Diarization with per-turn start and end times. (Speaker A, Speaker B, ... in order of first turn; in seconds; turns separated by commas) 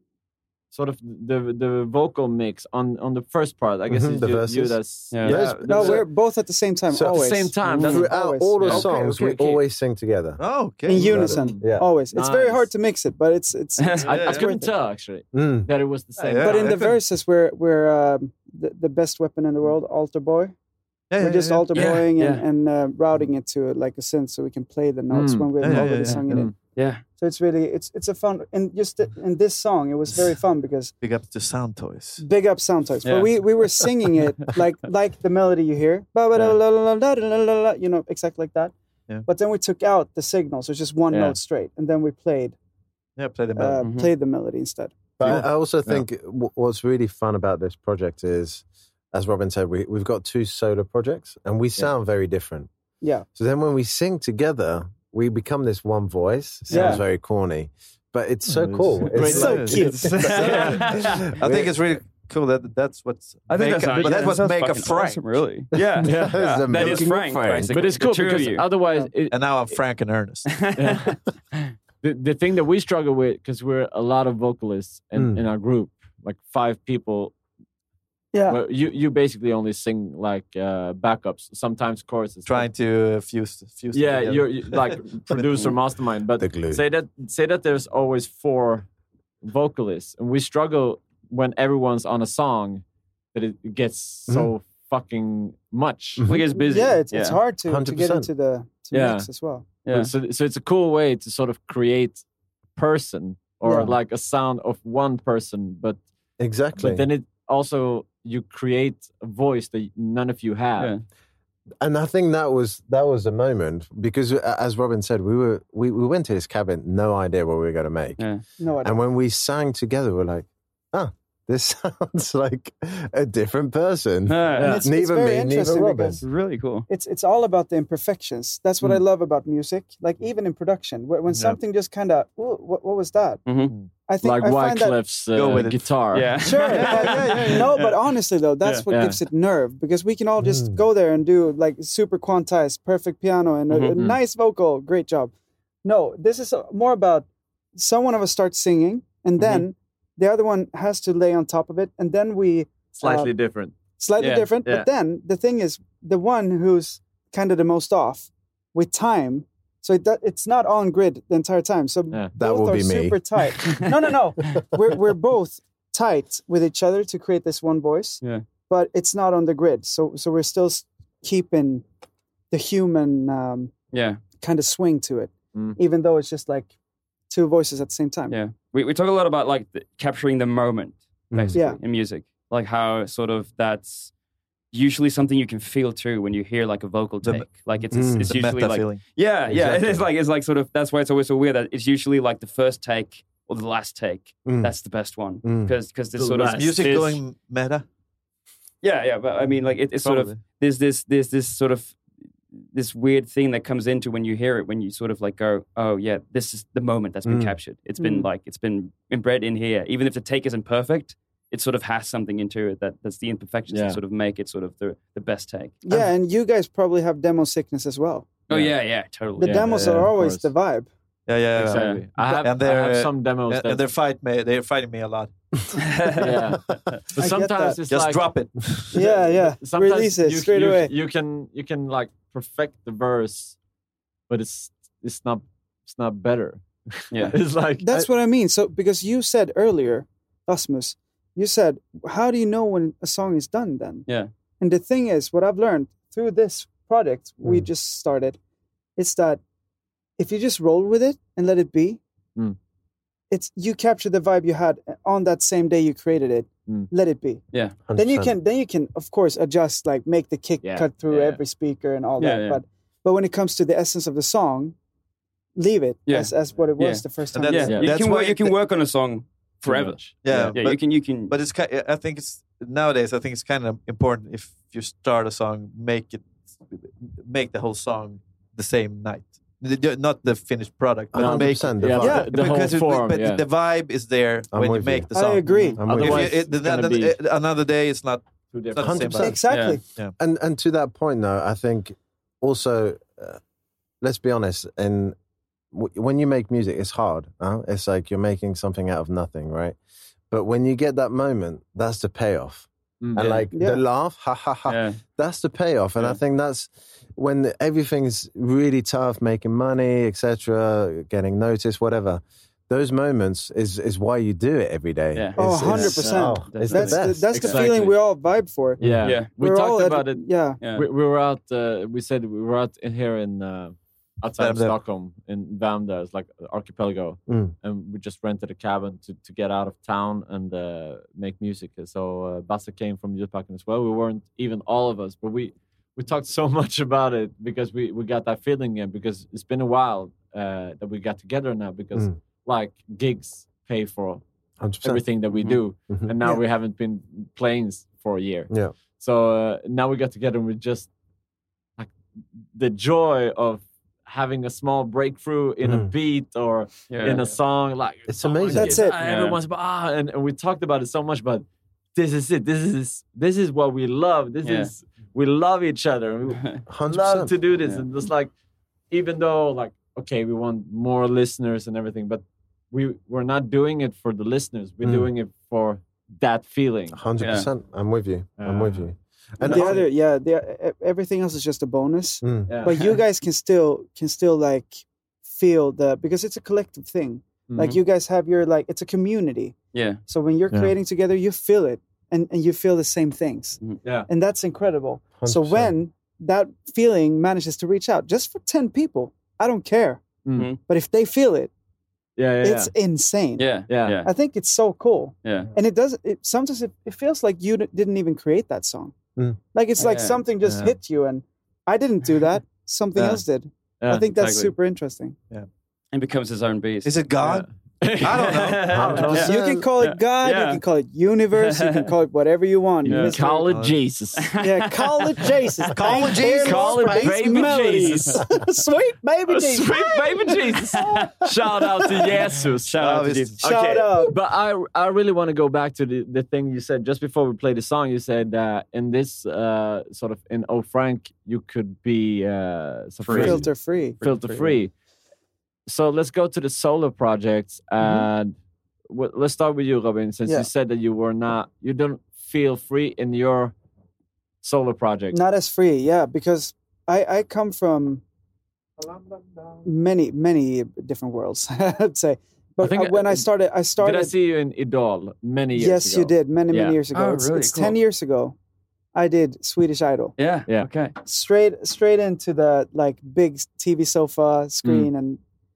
Speaker A: 0.7-6.0, Speaker B: 3.9-5.9, Speaker C: 5.1-5.4, Speaker D: 5.6-8.9, Speaker B: 6.9-11.9, Speaker A: 7.0-9.6, Speaker E: 10.4-11.3, Speaker D: 10.9-14.7, Speaker A: 11.2-12.7, Speaker C: 13.8-14.1, Speaker A: 14.0-16.8, Speaker E: 14.1-14.5, Speaker B: 15.3-15.7, Speaker E: 16.2-17.0, Speaker D: 16.4-20.5, Speaker E: 21.1-22.0, Speaker D: 21.2-26.5, Speaker C: 21.7-22.4, Speaker A: 25.1-26.5, Speaker E: 25.6-26.5, Speaker C: 26.7-27.0, Speaker D: 27.2-30.9, Speaker E: 31.0-32.2, Speaker D: 32.2-38.7, Speaker C: 33.0-33.3, Speaker D: 39.2-42.5, Speaker A: 41.1-41.4, Speaker E: 43.2-43.8, Speaker D: 43.5-45.1, Speaker C: 43.8-44.1, Speaker B: 45.2-52.7, Speaker A: 45.2-46.0, Speaker B: 53.3-60.2, Speaker D: 56.7-57.0, Speaker A: 58.5-60.7, Speaker E: 59.2-65.2, Speaker D: 59.2-60.1, Speaker C: 60.0-61.3, Speaker B: 61.0-61.8, Speaker C: 63.5-68.7, Speaker A: 64.0-64.3, Speaker B: 66.0-67.7, Speaker A: 66.0-67.1, Speaker A: 67.7-69.4, Speaker E: 69.3-70.5, Speaker C: 70.5-71.2, Speaker A: 70.8-71.1, Speaker A: 72.0-77.3, Speaker B: 75.1-75.4, Speaker D: 78.3-78.6, Speaker A: 78.5-82.7, Speaker E: 82.5-85.7, Speaker A: 83.9-88.9, Speaker B: 86.4-86.8, Speaker A: 89.4-96.2, Speaker B: 96.2-96.5, Speaker C: 96.2-97.4, Speaker D: 96.5-99.7, Speaker B: 97.7-98.3, Speaker A: 98.9-99.3, Speaker C: 99.8-100.1, Speaker A: 99.9-102.2, Speaker A: 102.8-106.0, Speaker D: 103.6-103.9, Speaker B: 106.4-107.1, Speaker A: 106.8-110.9, Speaker B: 111.8-118.2, Speaker C: 118.2-118.4, Speaker D: 118.6-119.0, Speaker B: 118.8-126.2, Speaker C: 124.3-124.8, Speaker A: 124.5-124.8, Speaker D: 124.6-126.2, Speaker C: 126.2-126.9, Speaker D: 126.9-133.4, Speaker E: 131.3-131.6, Speaker C: 133.4-133.7, Speaker D: 134.1-135.0, Speaker A: 134.2-136.4, Speaker E: 135.3-135.9, Speaker C: 136.1-137.9, Speaker D: 136.4-145.3, Speaker E: 136.6-137.7, Speaker A: 138.9-139.2, Speaker B: 140.4-140.8, Speaker C: 143.7-144.1, Speaker D: 145.8-153.3, Speaker A: 149.4-149.7, Speaker A: 152.9-153.8, Speaker D: 154.0-171.8, Speaker C: 154.2-154.5, Speaker B: 162.4-163.2, Speaker D: 172.5-173.7, Speaker C: 173.9-174.2, Speaker D: 174.4-176.7, Speaker A: 175.5-175.8, Speaker D: 177.3-178.3, Speaker C: 178.3-184.1, Speaker B: 181.3-181.6, Speaker D: 181.5-181.8, Speaker C: 184.7-197.2, Speaker E: 187.2-187.5, Speaker B: 187.9-188.3, Speaker E: 188.2-190.0, Speaker B: 194.4-194.7, Speaker B: 195.4-195.7, Speaker A: 196.2-196.9, Speaker E: 196.5-197.8, Speaker C: 198.8-202.0, Speaker E: 200.0-200.4, Speaker C: 202.7-215.8, Speaker B: 207.2-207.5, Speaker D: 208.0-208.3, Speaker A: 213.7-214.0, Speaker D: 215.8-218.3, Speaker C: 218.5-219.7, Speaker A: 219.4-220.5, Speaker D: 219.4-220.9, Speaker E: 221.3-225.3, Speaker A: 221.6-223.8, Speaker C: 221.7-222.0, Speaker C: 225.8-226.3, Speaker A: 226.2-226.6, Speaker A: 227.1-228.3, Speaker D: 227.2-227.8, Speaker E: 227.9-228.9, Speaker D: 228.9-230.9, Speaker A: 228.9-233.6, Speaker A: 234.3-237.8, Speaker C: 237.1-237.3, Speaker D: 237.8-244.1, Speaker D: 244.6-248.4, Speaker D: 249.0-249.4, Speaker D: 250.2-252.0, Speaker D: 253.3-257.4, Speaker B: 257.8-258.4, Speaker D: 257.9-264.7, Speaker A: 260.6-261.4, Speaker C: 262.2-262.6, Speaker D: 265.6-268.0, Speaker C: 266.1-271.3, Speaker E: 267.3-268.5, Speaker A: 267.7-267.9, Speaker A: 269.6-270.6, Speaker E: 270.2-289.4, Speaker B: 281.1-282.3, Speaker A: 281.1-283.4, Speaker D: 282.0-282.3, Speaker B: 284.5-285.1, Speaker D: 285.1-285.8, Speaker B: 285.8-286.4, Speaker A: 285.9-287.1, Speaker A: 288.5-289.2, Speaker B: 288.8-289.4, Speaker D: 289.1-289.8, Speaker C: 289.5-289.8, Speaker B: 290.2-293.4, Speaker B: 294.0-295.1, Speaker B: 295.7-299.8, Speaker B: 300.3-317.5, Speaker A: 303.0-303.4, Speaker D: 303.5-303.8, Speaker C: 304.7-305.0, Speaker D: 315.4-318.8, Speaker A: 315.6-318.0, Speaker A: 318.8-344.2, Speaker C: 319.0-319.3, Speaker D: 319.4-320.6, Speaker C: 320.6-320.9, Speaker E: 324.4-324.7, Speaker B: 327.3-327.5, Speaker B: 344.6-345.0, Speaker A: 344.8-350.9, Speaker B: 345.9-346.2, Speaker B: 348.5-348.7, Speaker A: 352.5-361.4, Speaker B: 355.6-355.9, Speaker C: 356.9-357.3, Speaker B: 358.1-358.8, Speaker D: 358.5-359.0, Speaker C: 359.0-359.4, Speaker A: 361.9-368.3, Speaker C: 364.4-364.7, Speaker B: 366.7-367.3, Speaker A: 368.9-377.0, Speaker B: 374.8-375.1, Speaker B: 376.9-379.8, Speaker C: 377.2-377.5, Speaker A: 378.4-378.9, Speaker A: 379.4-379.8, Speaker D: 379.4-389.6, Speaker B: 382.2-382.5, Speaker A: 382.5-382.8, Speaker A: 387.5-387.7, Speaker C: 389.7-390.0, Speaker D: 390.1-400.0, Speaker B: 395.1-395.7, Speaker A: 400.2-400.5, Speaker D: 400.7-401.5, Speaker A: 402.2-402.7, Speaker D: 402.4-403.5, Speaker C: 403.4-404.1, Speaker A: 403.7-404.0, Speaker D: 404.0-408.9, Speaker C: 405.2-405.5, Speaker D: 409.5-415.2, Speaker C: 409.8-410.2, Speaker E: 410.4-410.7, Speaker A: 413.8-414.5, Speaker C: 415.9-417.0, Speaker E: 416.8-417.4, Speaker A: 417.2-419.3, Speaker E: 418.0-418.8, Speaker C: 418.2-420.6, Speaker B: 418.7-419.6, Speaker D: 419.2-423.5, Speaker C: 421.3-421.9, Speaker A: 422.8-424.3, Speaker C: 422.9-423.1, Speaker E: 423.5-423.7, Speaker C: 424.2-426.1, Speaker D: 424.4-431.1, Speaker E: 425.8-426.7, Speaker A: 425.9-428.2, Speaker C: 427.2-428.1, Speaker A: 429.3-443.4, Speaker C: 430.8-431.1, Speaker C: 432.6-433.4, Speaker E: 432.8-433.4, Speaker D: 433.4-434.1, Speaker C: 443.0-443.5, Speaker D: 443.1-444.0, Speaker C: 444.0-444.6, Speaker A: 444.0-444.7, Speaker A: 445.7-448.3, Speaker D: 447.8-448.1, Speaker A: 448.9-453.5, Speaker A: 454.4-455.2, Speaker D: 455.1-458.0, Speaker D: 459.6-464.1, Speaker A: 462.6-463.3, Speaker A: 463.8-466.8, Speaker D: 465.6-468.4, Speaker C: 466.9-467.8, Speaker D: 468.9-470.1, Speaker C: 470.2-470.9, Speaker D: 471.0-475.2